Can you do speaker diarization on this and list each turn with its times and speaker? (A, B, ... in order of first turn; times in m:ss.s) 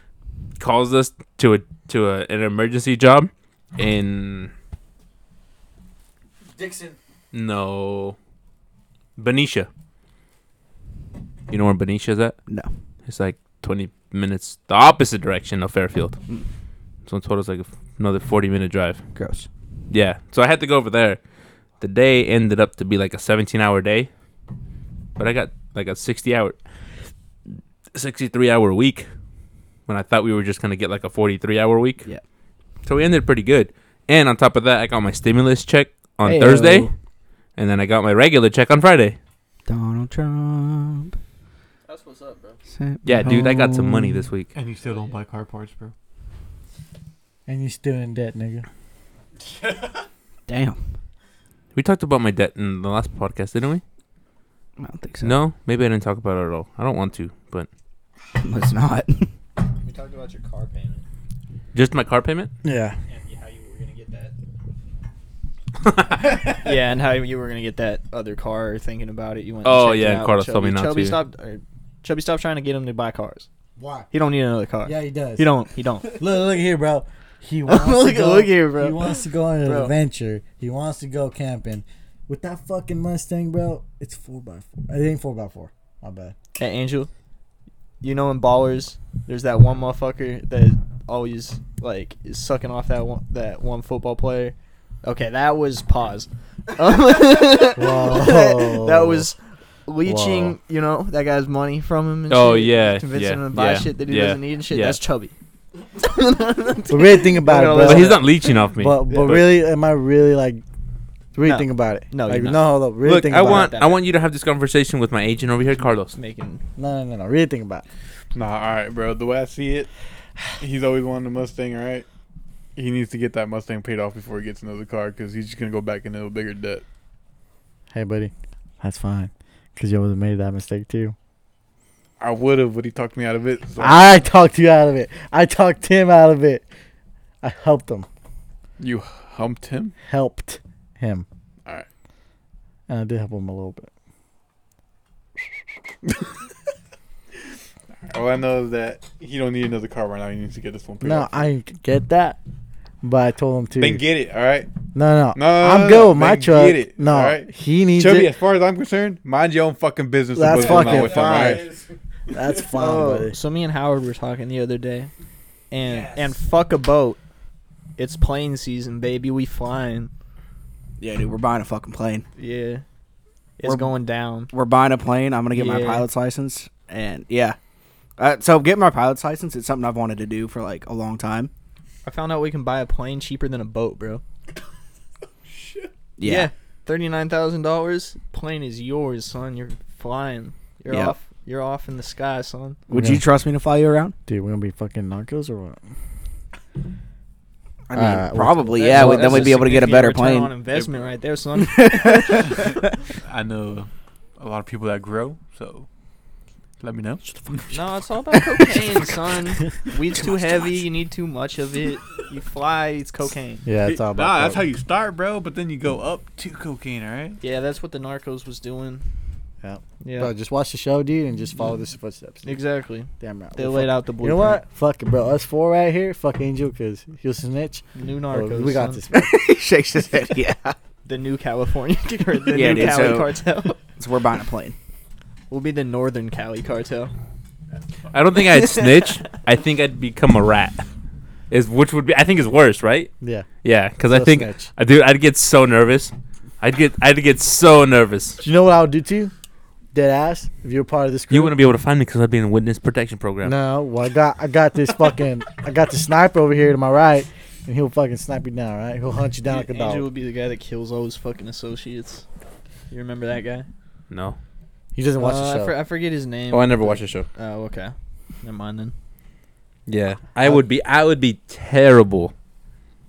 0:00.6-0:04.5 A
0:06.5-0:07.0 B
0:07.3-0:08.2 A
0:09.2-0:09.7 A
0:11.5-0:12.4 A
0:13.1-0:16.2 A
0:17.1-0:19.0 A
0:19.2-0:19.5 C
0:19.9-0:21.2 A
0:21.8-0:24.1 A
0:25.2-0:26.6 A
0:27.9-0:29.1 A
0:29.9-0:32.1 A
0:32.8-0:36.9 A
0:36.2-0:36.9 C
0:37.6-0:39.2 A
0:39.7-0:41.2 C
0:41.8-0:42.6 D
0:42.7-0:44.3 C
0:43.0-0:44.5 A
0:44.5-0:45.9 E
0:44.8-0:45.2 D
0:47.5-0:48.7 B
0:50.5-0:50.8 C
0:51.8-0:53.8 A
0:54.8-0:55.4 C
0:55.2-0:57.7 A
0:58.4-0:59.3 C
0:59.8-1:01.0 D
1:01.7-1:02.5 A
1:02.6-1:03.0 B
1:03.1-1:04.3 D
1:05.9-1:06.4 A
1:06.5-1:13.5 D
1:09.6-1:11.2 A
1:13.8-1:14.1 B
1:14.1-1:16.2 D
1:14.8-1:15.5 B
1:16.1-1:26.4 B
1:17.7-1:19.9 D
1:26.6-1:27.1 D
1:28.0-1:45.4 D
1:37.7-1:39.3 B
1:40.0-1:40.6 B
1:42.3-1:45.0 A
1:46.0-1:48.5 D
1:46.9-1:50.6 B
1:47.8-1:49.5 A
1:51.3-1:53.7 B
1:51.4-1:54.0 D
1:53.0-1:56.2 A
1:56.2-1:56.6 D
1:56.8-1:57.8 B
1:58.4-1:59.9 E
2:00.6-2:02.1 E
2:02.8-2:06.8 E
2:07.9-2:11.2 B
2:12.2-2:14.2 E
2:13.8-2:16.7 B
2:17.4-2:18.1 B
2:18.8-2:20.0 E
2:20.0-2:21.3 B
2:22.9-2:23.9 B
2:28.1-2:31.4 E
2:31.0-2:32.4 B
2:33.0-2:34.0 B
2:33.8-2:34.7 E
2:34.9-2:38.3 B
2:35.4-2:42.4 E
2:40.3-2:41.7 B
2:42.3-2:43.4 B
2:42.7-2:45.1 D
2:45.7-2:47.2 D
2:48.0-2:50.1 D
2:51.0-2:52.3 C
2:52.4-2:52.8 D
2:53.6-2:54.5 D
2:53.6-2:53.9 C
2:54.5-2:57.6 C
2:55.5-2:56.1 D
2:58.2-3:01.5 C
3:02.0-3:04.2 D
3:05.5-3:05.9 E
3:06.2-3:06.5 C
3:06.2-3:12.8 D
3:10.9-3:11.2 C
3:12.9-3:14.2 C
3:12.9-3:13.2 B
3:14.3-3:15.8 B
3:17.9-3:20.6 C
3:17.9-3:19.7 B
3:18.8-3:22.5 D
3:20.7-3:21.1 E
3:21.6-3:22.6 C
3:22.5-3:25.9 E
3:26.8-3:27.8 E
3:27.7-3:33.7 D
3:30.2-3:30.6 C
3:33.6-3:34.7 B
3:33.8-3:37.4 E
3:37.4-3:39.0 D
3:39.6-3:42.6 B
3:40.0-3:40.3 D
3:42.4-3:44.6 D
3:43.1-3:49.4 B
3:48.0-3:49.0 D
3:49.1-3:50.8 C
3:51.0-3:53.8 D
3:52.5-3:53.4 C
3:54.0-3:54.8 C
3:55.5-3:57.1 D
3:58.1-4:00.9 A
4:01.5-4:03.1 A
4:03.2-4:03.5 B
4:03.6-4:08.4 A
4:04.1-4:04.7 B
4:08.4-4:09.3 B
4:09.9-4:11.6 B
4:11.3-4:13.6 A
4:13.4-4:20.1 B
4:19.5-4:22.2 D
4:22.9-4:23.7 D
4:24.1-4:24.4 A
4:25.0-4:25.8 B
4:25.2-4:28.9 D
4:26.5-4:27.3 A
4:29.9-4:32.3 A